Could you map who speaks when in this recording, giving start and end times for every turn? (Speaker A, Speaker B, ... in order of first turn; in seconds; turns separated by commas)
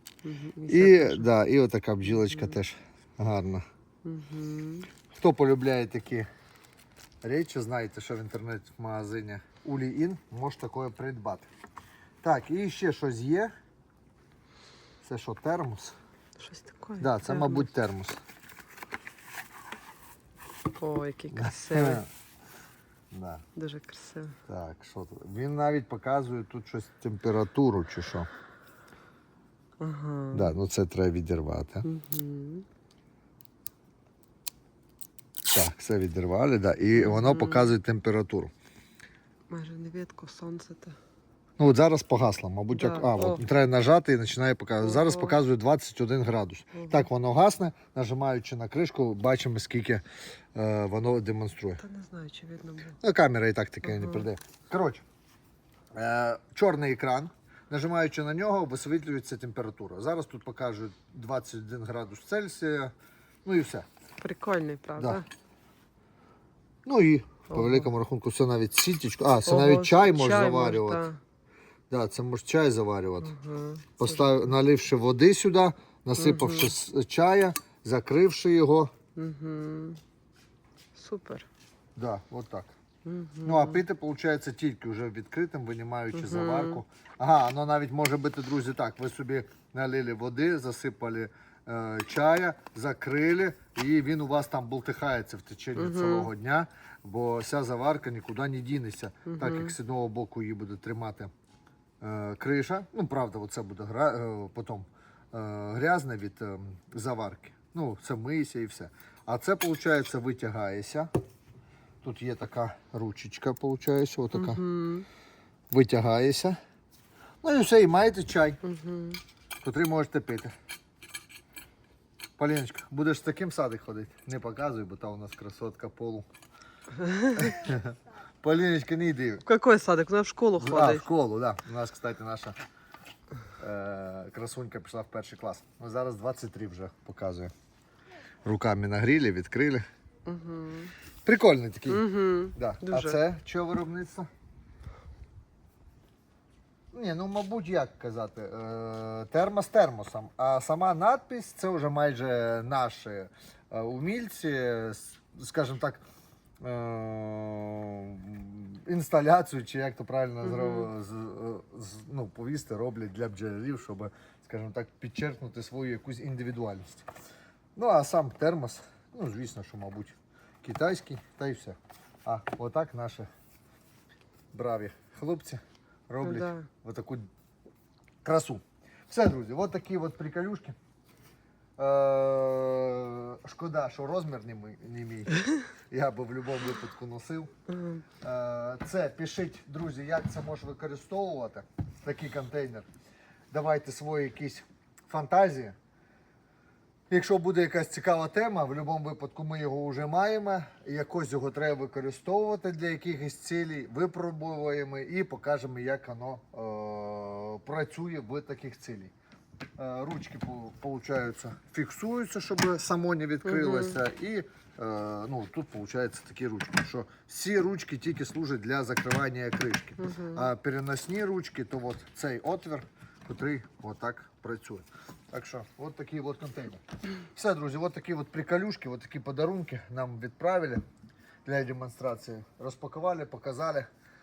Speaker A: 0.2-1.3, Speaker B: 0.7-3.6, Speaker A: 4.0-4.9, Speaker B: 5.1-6.3, Speaker B: 7.2-11.5, Speaker B: 12.2-13.5, Speaker B: 15.0-15.9, Speaker A: 16.4-17.7, Speaker B: 17.0-18.2, Speaker A: 20.8-22.0, Speaker B: 21.3-22.1, Speaker B: 23.1-23.4, Speaker A: 23.5-24.4, Speaker B: 24.5-28.3, Speaker A: 29.8-30.6, Speaker B: 30.3-31.9, Speaker A: 31.8-32.6, Speaker B: 35.5-38.5, Speaker A: 37.0-37.7, Speaker A: 39.5-41.0, Speaker B: 41.6-50.0, Speaker A: 42.7-43.5, Speaker A: 44.8-45.4, Speaker A: 46.8-47.1, Speaker B: 50.5-51.8, Speaker A: 51.8-53.0, Speaker B: 53.0-55.0, Speaker A: 53.8-54.2, Speaker B: 55.9-62.9, Speaker B: 63.4-63.9, Speaker A: 64.2-65.2, Speaker B: 66.8-71.1, Speaker A: 67.5-67.9, Speaker A: 69.5-71.2, Speaker B: 71.9-73.3, Speaker A: 73.2-74.5, Speaker B: 74.0-78.9, Speaker A: 76.2-76.7, Speaker A: 79.2-80.0, Speaker A: 80.9-81.5, Speaker B: 82.0-82.7, Speaker A: 83.0-83.8, Speaker B: 83.4-101.3, Speaker A: 86.1-86.8, Speaker A: 95.8-96.3, Speaker A: 99.3-99.7, Speaker B: 102.0-111.1, Speaker B: 112.0-114.6, Speaker A: 114.3-115.0, Speaker B: 115.7-116.6, Speaker B: 117.4-118.6, Speaker A: 118.6-119.2, Speaker B: 119.6-120.5, Speaker B: 122.4-126.2, Speaker B: 127.3-129.4, Speaker A: 129.4-131.1, Speaker B: 130.6-132.6, Speaker B: 133.6-137.5, Speaker B: 138.4-139.8, Speaker A: 140.2-140.9, Speaker B: 141.2-144.3, Speaker A: 141.9-143.2, Speaker B: 146.9-156.0, Speaker B: 156.6-167.1, Speaker A: 160.4-160.9, Speaker B: 167.8-173.3, Speaker B: 174.5-177.3, Speaker A: 176.2-176.7, Speaker B: 178.2-180.8, Speaker B: 181.8-185.4, Speaker B: 185.9-187.5, Speaker B: 188.2-192.9, Speaker B: 193.5-195.7, Speaker B: 197.1-209.1, Speaker B: 209.8-230.8, Speaker A: 213.4-214.0, Speaker A: 220.0-220.5, Speaker B: 231.4-233.9